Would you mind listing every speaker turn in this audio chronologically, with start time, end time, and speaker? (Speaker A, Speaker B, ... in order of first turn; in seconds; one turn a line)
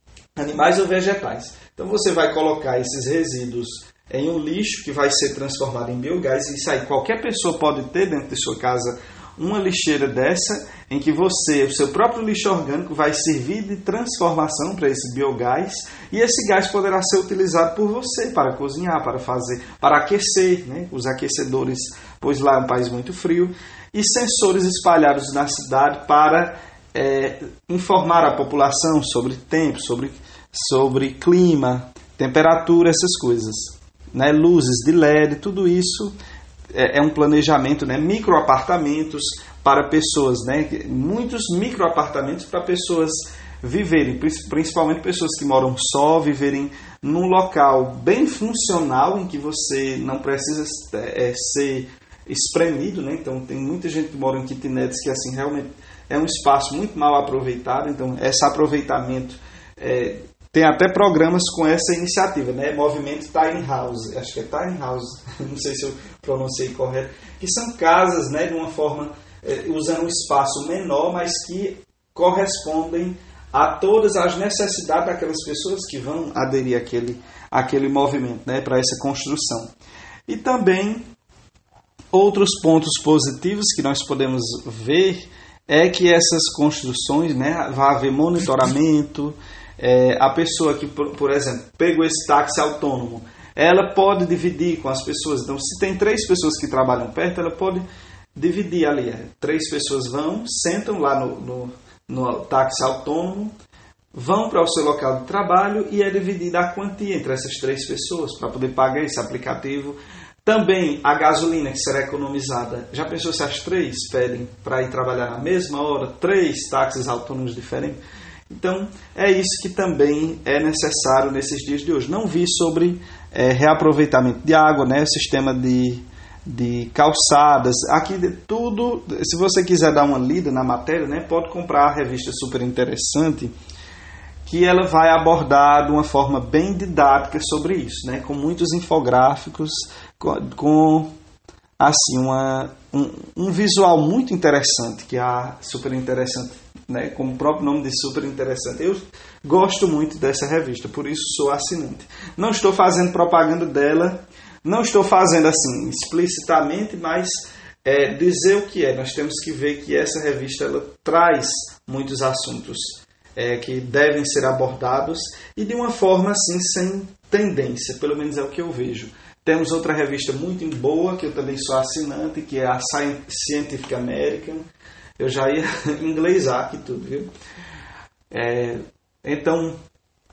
Speaker A: 0.4-36.1
Speaker A: 36.7-79.7
Speaker A: 80.3-81.0
Speaker A: 82.1-97.8
Speaker A: 98.3-103.5
Speaker A: 104.1-118.0
Speaker A: 118.5-133.5
Speaker A: 134.4-141.1
Speaker A: 141.8-174.6
Speaker A: 175.2-177.3
Speaker A: 178.3-179.8